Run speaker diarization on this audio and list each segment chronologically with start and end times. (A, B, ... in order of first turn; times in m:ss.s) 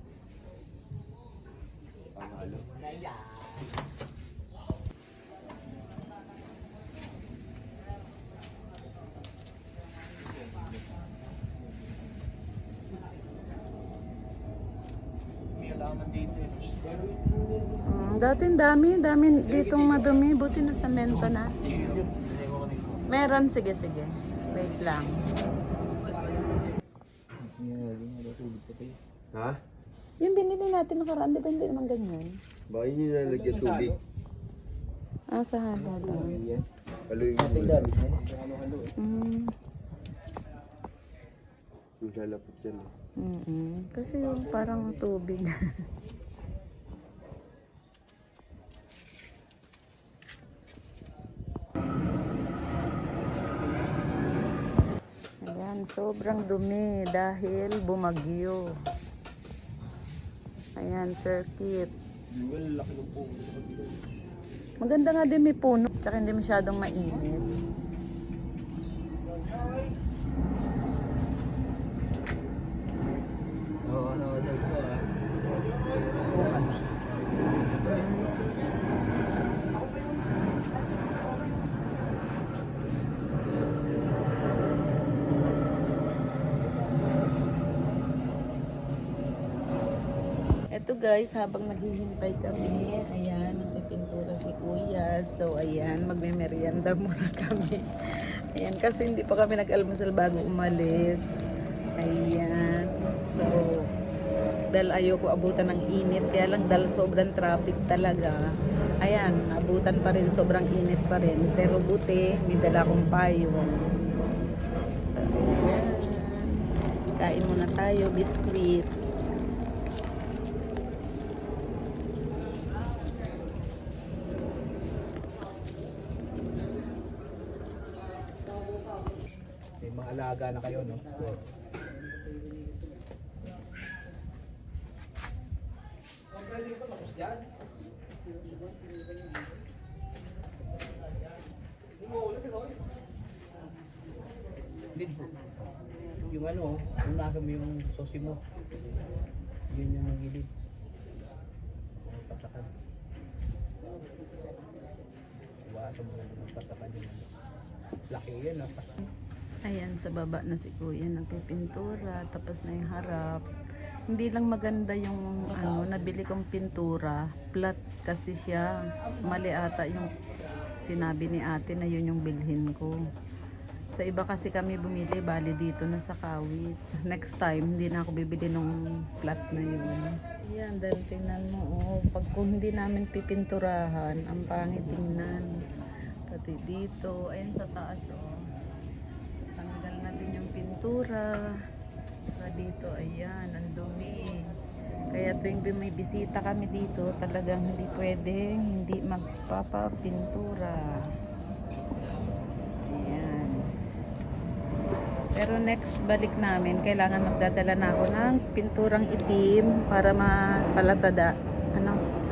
0:02.1-0:02.7 A
0:15.6-0:17.6 B
0:17.8-0:21.5 C
0:19.4-0:20.1 B
0:21.1-0:23.0 B
0:23.1-0:25.2 C
0:26.0-0:26.4 B
0:27.4-0:29.0 B
0:29.3-0:29.6 A
0:30.2-0:32.4 C
0:32.7-0:33.9 A
0:33.2-0:34.0 B
0:35.3-0:36.4 C
0:35.8-0:36.6 B
0:37.1-0:37.9 A
0:37.3-0:38.9 B
0:39.0-0:39.5 C
0:42.0-0:42.9 A
0:43.2-0:45.5 C
0:44.4-0:44.8 B
0:55.4-0:58.7 C
1:00.8-1:01.9 C
1:02.3-1:03.9 B
1:04.8-1:07.4 C
1:09.3-1:09.9 B
1:13.8-1:15.0 A
1:15.9-1:16.6 A
1:15.9-1:18.3 B
1:30.7-1:37.8 C
1:38.5-1:41.3 C
1:42.0-1:43.9 C
1:44.7-1:48.4 C
1:49.0-1:53.8 C
1:55.1-1:56.6 C
1:57.2-1:58.9 C
2:09.8-2:11.4 B
2:16.3-2:17.4 B
2:22.1-2:22.7 B
2:24.9-2:25.3 B
2:26.2-2:28.4 B
2:29.7-2:30.5 B
2:32.0-2:32.7 B
2:35.6-2:37.3 B
2:38.1-2:39.1 B
2:39.6-2:43.4 C
2:44.1-2:50.2 C
2:50.8-2:53.1 C
2:53.9-3:05.5 C
3:06.3-3:08.3 C
3:09.5-3:11.4 C
3:12.4-3:14.5 C
3:15.1-3:21.0 C
3:22.8-3:23.6 C
3:25.4-3:32.0 C